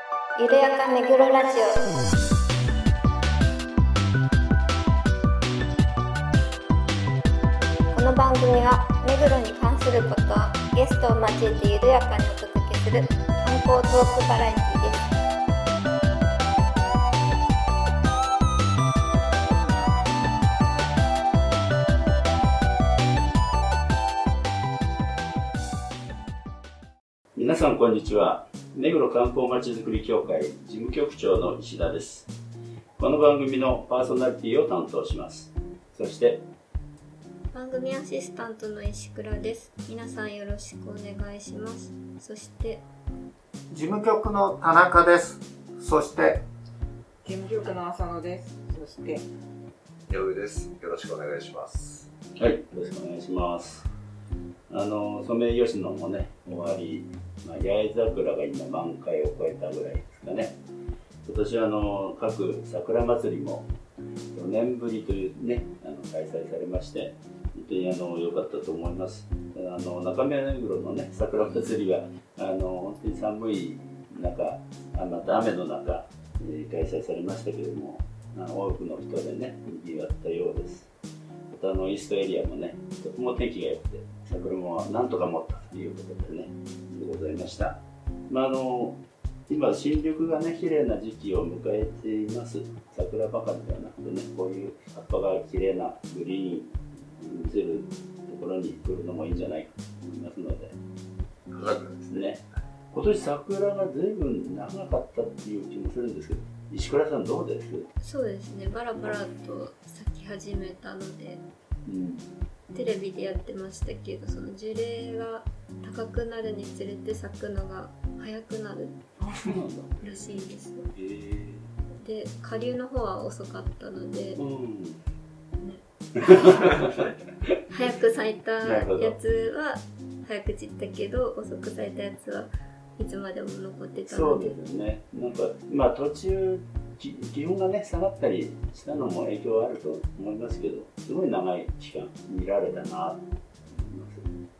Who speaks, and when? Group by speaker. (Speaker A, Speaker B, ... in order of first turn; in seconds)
Speaker A: 0.4-1.9, 7.9-15.0, 37.5-42.8, 108.0-111.4, 112.7-119.1, 120.0-120.9, 122.0-124.4, 125.6-126.8, 127.7-134.6
Speaker B: 27.3-32.3, 33.0-36.4, 52.4-53.9, 54.7-60.6, 61.2-63.7, 64.3-80.9, 81.5-100.7, 101.6-107.9, 111.8-112.3, 119.4-120.4, 120.9-121.7, 124.3-125.0, 126.2-127.9, 128.6-129.2, 134.0-144.4
Speaker C: 43.7-46.4
Speaker D: 47.2-49.2, 119.2-119.5
Speaker E: 50.1-52.1, 101.5-102.3